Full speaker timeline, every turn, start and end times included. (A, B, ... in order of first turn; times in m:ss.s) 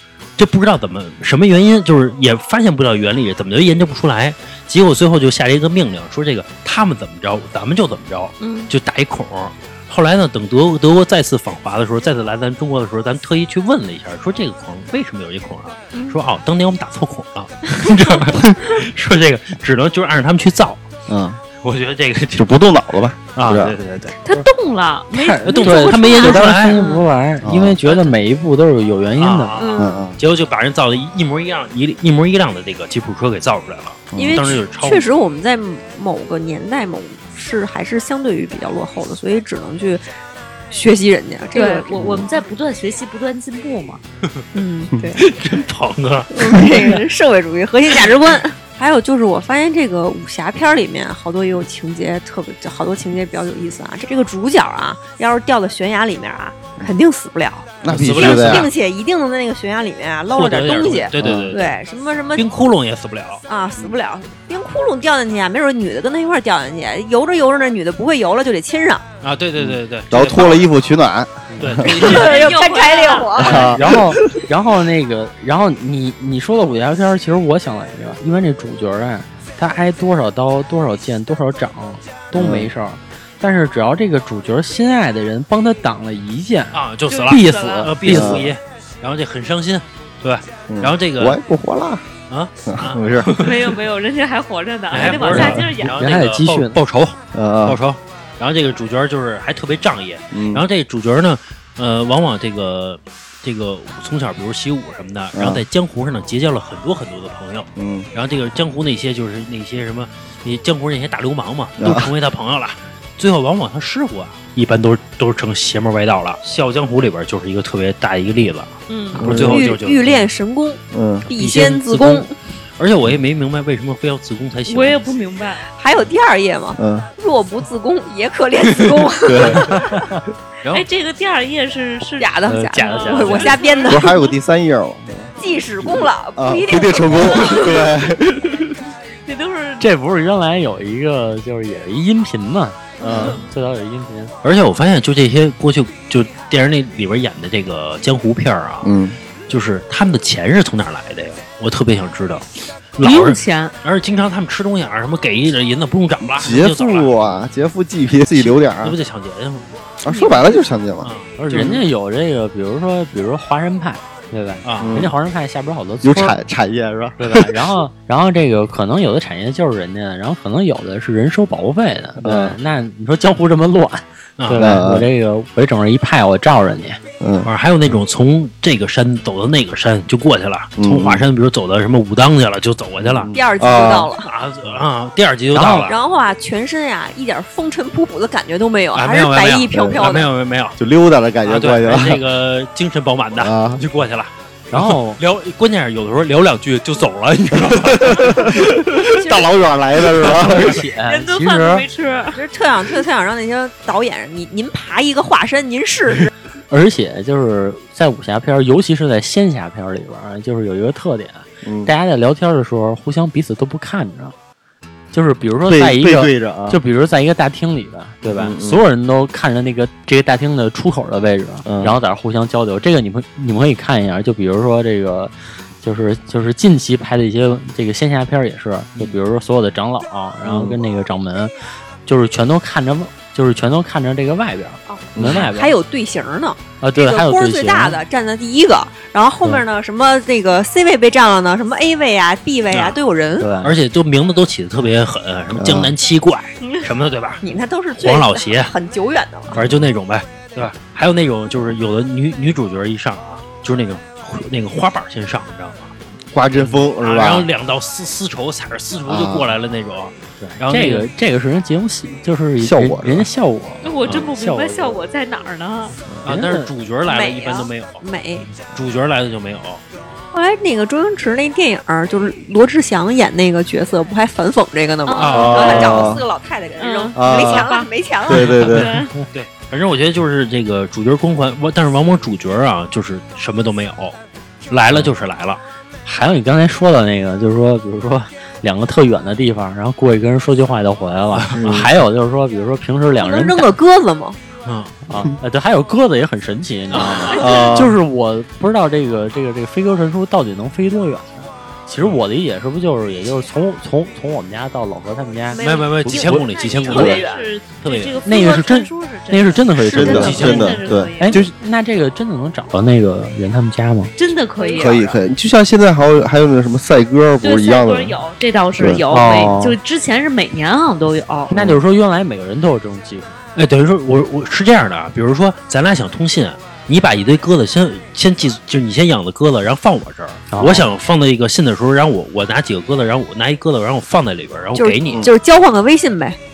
0:00.4-0:20.8 A
0:08.4-0:08.7 B
0:15.9-0:16.2 B
0:21.1-0:21.4 C
0:21.6-0:22.7 A
0:22.4-0:23.8 C
0:23.3-0:24.2 A
0:24.2-0:27.0 D
0:25.1-0:29.6 E
0:25.5-0:26.8 A
0:27.4-0:27.8 C
0:27.8-0:28.1 A
0:29.2-0:35.1 A
0:29.6-0:30.0 B
0:29.8-0:30.2 C
0:34.1-0:34.4 C
0:34.2-0:40.0 B
0:40.7-0:42.2 B
0:41.5-0:44.0 D
0:42.0-0:42.2 C
0:44.5-0:45.2 B
0:45.2-0:47.0 A
0:46.3-1:02.5 B
0:57.8-0:58.7 C
0:57.9-0:58.7 A
1:00.3-1:01.8 A
1:01.2-1:01.5 C
1:02.3-1:03.4 A
1:03.5-1:09.0 B
1:09.2-1:10.7 A
1:09.6-1:11.9 C
1:11.5-1:11.9 E
1:11.6-1:12.8 A
1:11.9-1:13.7 D
1:11.9-1:13.8 B
1:13.4-1:14.4 C
1:13.4-1:28.5 E
1:22.3-1:22.7 C
1:26.7-1:31.4 A
1:27.1-1:27.9 D
1:28.0-1:28.5 C
1:30.7-1:32.0 C
1:32.3-1:33.7 A
1:32.7-1:33.3 C
1:33.3-1:35.9 D
1:34.9-2:00.3 A
1:35.0-1:36.8 E
1:35.3-1:35.6 C
1:37.3-1:37.8 C
1:40.3-1:40.6 C
1:45.3-1:45.6 C
1:47.8-1:48.1 C
1:51.8-1:52.1 C
1:58.9-1:59.3 D
1:59.2-1:59.7 C
1:59.3-2:02.3 B
2:00.9-2:01.3 C
2:01.3-2:02.2 A
2:02.8-2:05.0 A
2:04.7-2:05.6 D
2:05.7-2:10.1 B
2:06.8-2:07.1 C
2:09.2-2:09.8 C
2:10.6-2:14.3 D
2:12.2-2:14.3 B
2:12.4-2:12.7 E
2:12.7-2:13.6 A
2:13.8-2:15.4 C
2:15.4-2:17.9 B
2:16.0-2:18.7 C
2:19.2-2:19.8 D
2:19.8-2:24.3 E
2:23.0-2:23.4 D
2:23.0-2:23.4 C
2:24.4-2:28.9 A
2:28.8-2:29.2 C
2:29.5-2:37.4 A
2:33.0-2:33.7 D
2:36.3-2:38.9 C
2:38.4-2:39.7 A
2:40.0-2:41.8 C
2:40.1-2:40.6 D
2:40.1-2:40.4 B
2:41.0-2:41.8 A
2:41.4-2:46.4 E
2:44.6-2:45.1 A
2:44.8-2:45.1 C
2:46.0-2:47.6 C
2:47.2-2:57.0 E
2:52.2-2:52.6 C
2:54.4-2:54.8 A
2:54.5-2:55.1 C
2:57.2-2:57.5 C
2:57.4-3:03.3 A
3:00.8-3:01.2 C
3:03.0-3:04.1 C
3:03.3-3:04.3 B
3:04.1-3:06.0 A
3:05.5-3:05.9 E
3:05.8-3:10.3 B
3:08.9-3:10.8 A
3:09.7-3:10.0 C
3:10.8-3:12.2 C
3:11.4-3:18.8 A
3:13.4-3:13.8 C
3:14.7-3:15.2 E
3:17.6-3:20.8 C
3:19.1-3:19.6 B
3:20.1-3:21.9 E
3:21.0-3:22.4 D
3:22.3-3:26.3 B
3:26.7-3:34.3 E
3:31.6-3:31.9 C
3:35.1-3:51.5 E
3:35.7-3:36.8 C
3:38.2-3:38.8 C
3:41.6-3:42.0 C
3:50.4-3:50.8 C
3:52.0-3:55.8 E
3:54.9-4:03.5 B
3:55.2-3:55.4 C
3:56.8-3:58.0 E
4:02.7-4:03.0 A
4:03.4-4:03.8 E
4:03.6-4:08.7 A
4:05.6-4:05.9 C
4:07.4-4:09.6 B
4:09.5-4:16.0 A
4:16.3-4:17.5 C
4:16.5-4:21.1 A
4:19.1-4:19.5 C
4:20.4-4:25.0 E
4:22.6-4:23.3 C
4:23.8-4:26.0 D
4:26.2-4:28.0 A
4:26.2-4:26.7 E
4:27.0-4:28.5 B
4:28.6-4:29.8 A
4:30.3-4:38.8 B
4:35.0-4:36.0 D
4:35.2-4:36.2 A
4:35.3-4:36.2 C
4:36.8-4:37.9 D
4:37.1-4:37.6 C
4:38.3-4:38.9 C
4:38.4-4:44.2 A
4:38.5-4:39.1 D
4:44.7-4:45.6 A
4:46.0-4:53.7 E
4:51.3-4:51.9 A
4:51.6-4:51.9 C
4:53.2-4:54.4 B
4:54.6-4:55.0 A
4:55.1-5:06.4 E
4:56.9-4:57.3 A
4:57.2-4:57.7 D
4:57.3-4:58.0 C
5:05.5-5:07.5 B
5:05.6-5:07.3 A
5:05.7-5:11.4 D
5:07.8-5:08.2 A
5:08.2-5:14.1 E
5:09.8-5:11.5 C
5:10.1-5:10.8 A
5:14.2-5:15.2 D
5:14.6-5:15.1 B
5:14.8-5:18.2 C
5:17.4-5:21.5 D
5:18.8-5:19.0 C
5:19.0-5:19.8 E
5:21.5-5:23.4 E
5:23.5-5:35.3 A
5:30.5-5:30.9 E
5:34.8-5:36.4 B